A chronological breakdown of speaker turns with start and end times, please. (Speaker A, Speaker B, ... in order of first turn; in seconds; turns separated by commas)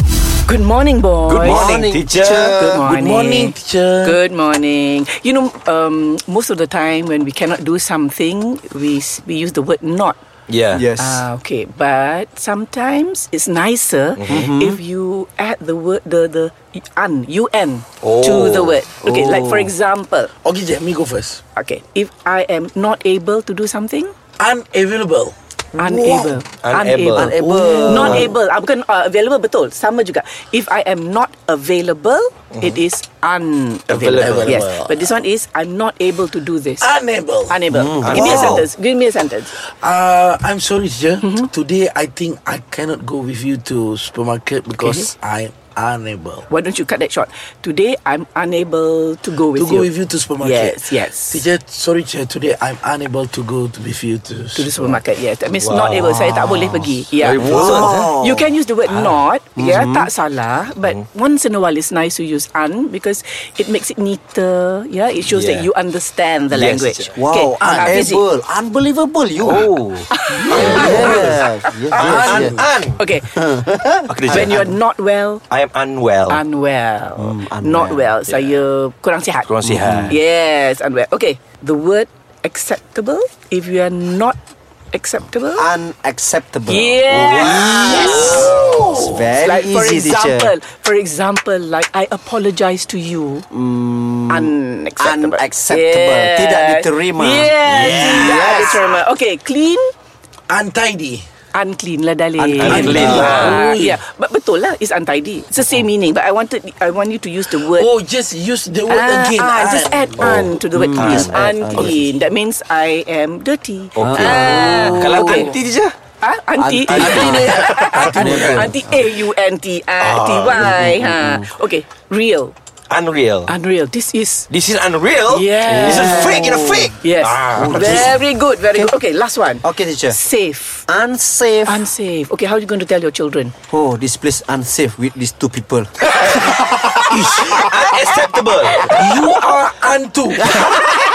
Speaker A: 0.5-1.6, Speaker B: 1.3-2.6, Speaker C: 1.4-2.9, Speaker A: 2.4-10.2, Speaker D: 2.8-4.2, Speaker B: 10.5-10.9, Speaker C: 10.7-11.2, Speaker A: 11.0-20.3, Speaker B: 14.2-14.5, Speaker C: 14.3-14.8, Speaker B: 18.0-18.8, Speaker C: 19.0-19.7, Speaker D: 20.4-21.4, Speaker A: 21.6-24.1, Speaker D: 24.4-26.4, Speaker A: 25.8-36.9, Speaker B: 26.6-27.3, Speaker C: 27.1-28.3, Speaker D: 27.2-28.3, Speaker B: 32.5-32.8, Speaker B: 33.9-34.6, Speaker D: 34.1-35.0, Speaker D: 36.8-38.5, Speaker A: 37.5-39.6, Speaker B: 37.8-38.7, Speaker C: 37.8-38.5, Speaker D: 39.5-46.5, Speaker A: 44.8-45.1, Speaker A: 46.5-51.5, Speaker D: 49.5-55.0, Speaker A: 54.5-68.2, Speaker B: 55.5-58.1, Speaker C: 57.3-58.5, Speaker C: 59.6-60.1, Speaker B: 65.2-65.7, Speaker B: 66.5-67.2, Speaker C: 67.2-72.6, Speaker D: 67.6-68.0, Speaker B: 69.4-71.3, Speaker A: 70.1-73.3, Speaker D: 70.5-71.3, Speaker B: 71.9-73.0, Speaker D: 72.0-72.7, Speaker C: 73.3-74.5, Speaker B: 74.1-74.8, Speaker A: 74.3-75.4, Speaker B: 75.5-76.4, Speaker A: 76.3-79.5, Speaker C: 77.2-78.2, Speaker B: 78.3-78.6, Speaker B: 79.4-80.2, Speaker C: 79.6-80.2, Speaker A: 80.1-84.4, Speaker A: 84.9-85.7, Speaker C: 85.5-90.5, Speaker A: 86.7-88.6, Speaker B: 87.1-89.2, Speaker A: 89.4-93.5, Speaker C: 93.5-98.9, Speaker A: 94.3-99.9, Speaker D: 97.7-98.3, Speaker B: 97.7-98.6, Speaker D: 100.5-101.2, Speaker A: 101.5-107.9, Speaker C: 102.4-103.6, Speaker B: 102.6-103.6, Speaker D: 102.7-104.0, Speaker D: 107.5-110.5, Speaker A: 108.9-115.5, Speaker B: 110.2-111.4, Speaker C: 110.7-112.2, Speaker B: 114.0-115.9, Speaker C: 114.0-115.5, Speaker A: 116.2-122.5, Speaker C: 116.6-118.8, Speaker B: 117.0-117.3, Speaker D: 117.0-118.7, Speaker B: 120.0-120.8, Speaker C: 120.7-121.5, Speaker B: 122.9-123.5, Speaker A: 123.5-124.5, Speaker B: 124.5-128.1, Speaker A: 125.3-130.9, Speaker C: 125.6-127.0, Speaker C: 127.5-128.1, Speaker C: 129.6-130.2, Speaker C: 130.9-131.8, Speaker A: 131.7-133.5, Speaker C: 133.7-136.6, Speaker D: 137.1-137.7, Speaker B: 137.4-139.1, Speaker D: 138.9-140.8, Speaker C: 140.4-140.8